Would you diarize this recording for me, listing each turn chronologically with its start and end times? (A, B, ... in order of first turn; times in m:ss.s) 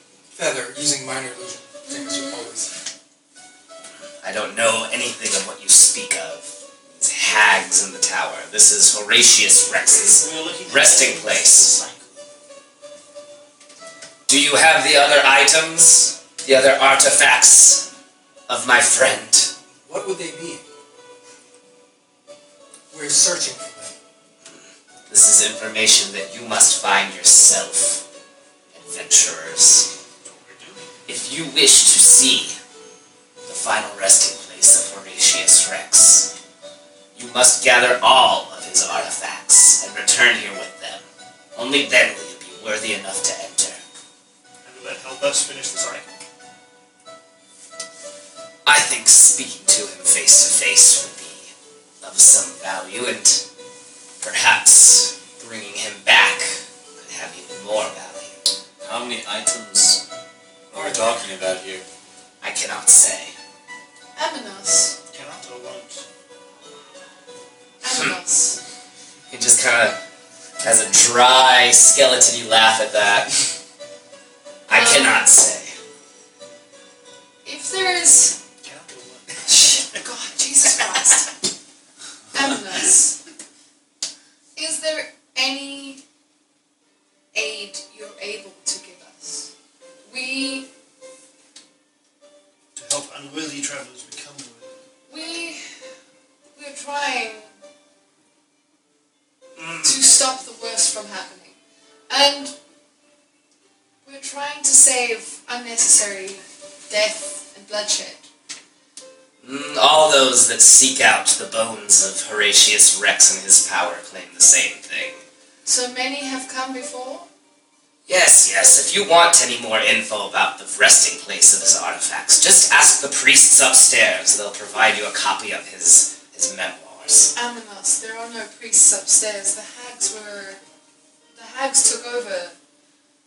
0:00.3-0:02.7 A
0:01.8-0:02.5 B
0:04.2-0:11.8 C
0:09.9-0:12.2 D
0:14.3-0:17.9 C
0:18.5-0:19.5 C
0:19.8-0:20.6 A
0:22.9-0:23.9 A
0:25.1-0:28.0 C
0:28.7-0:29.9 C
0:30.2-0:30.9 D
0:31.1-0:32.6 C
0:33.4-0:36.3 C
0:37.1-0:41.0 C
0:41.6-0:43.8 C
0:44.6-0:46.1 D
0:48.6-0:51.5 C
0:52.0-0:53.4 C
0:54.2-0:58.4 C
0:58.8-1:00.0 E
1:00.7-1:01.8 E
1:02.4-1:03.3 C
1:04.2-1:04.9 B
1:05.1-1:06.0 D
1:07.8-1:08.6 B
1:07.9-1:08.1 C
1:09.3-1:10.0 C
1:10.6-1:13.4 C
1:14.7-1:15.8 C
1:14.7-1:15.3 B
1:17.4-1:18.4 B
1:18.6-1:19.9 D
1:19.5-1:21.3 B
1:22.3-1:23.2 B
1:24.6-1:26.0 B
1:27.3-1:29.5 B
1:30.0-1:30.7 B
1:32.8-1:34.8 D
1:35.1-1:35.6 B
1:36.5-1:37.5 B
1:39.6-1:40.0 C
1:39.8-1:41.5 B
1:42.1-1:42.5 B
1:44.0-1:48.2 B
1:49.4-1:55.2 C
1:55.6-1:57.3 B
1:58.1-2:07.3 C
2:07.3-2:10.6 B
2:11.3-2:12.5 B